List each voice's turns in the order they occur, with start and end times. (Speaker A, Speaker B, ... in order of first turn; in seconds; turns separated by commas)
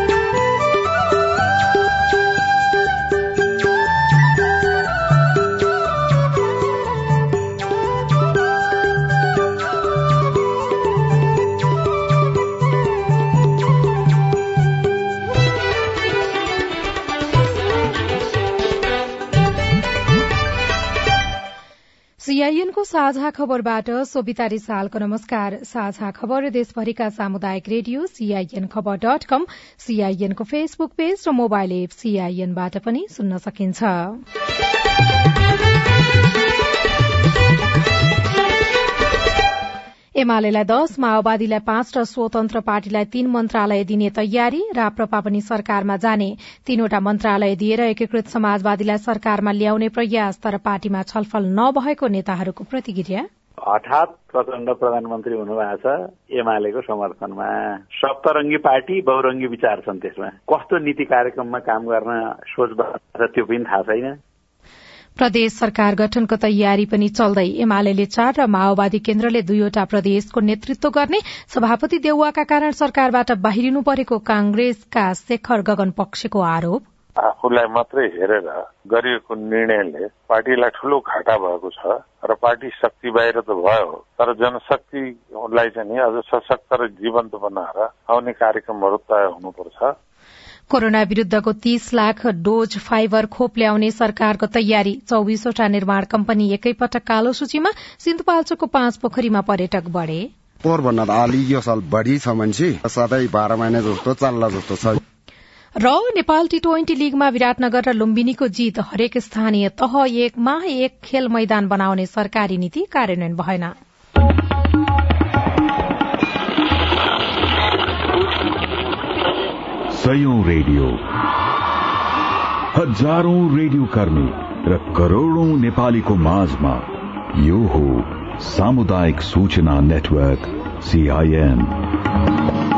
Speaker A: 22.2-34.2, Speaker A: 40.2-53.3, Speaker B: 53.7-64.2, Speaker A: 65.2-76.8, Speaker C: 77.2-89.9, Speaker A: 90.7-100.3, Speaker D: 100.6-105.0, Speaker A: 105.8-113.7, Speaker E: 119.9-121.0, Speaker E: 122.7-131.8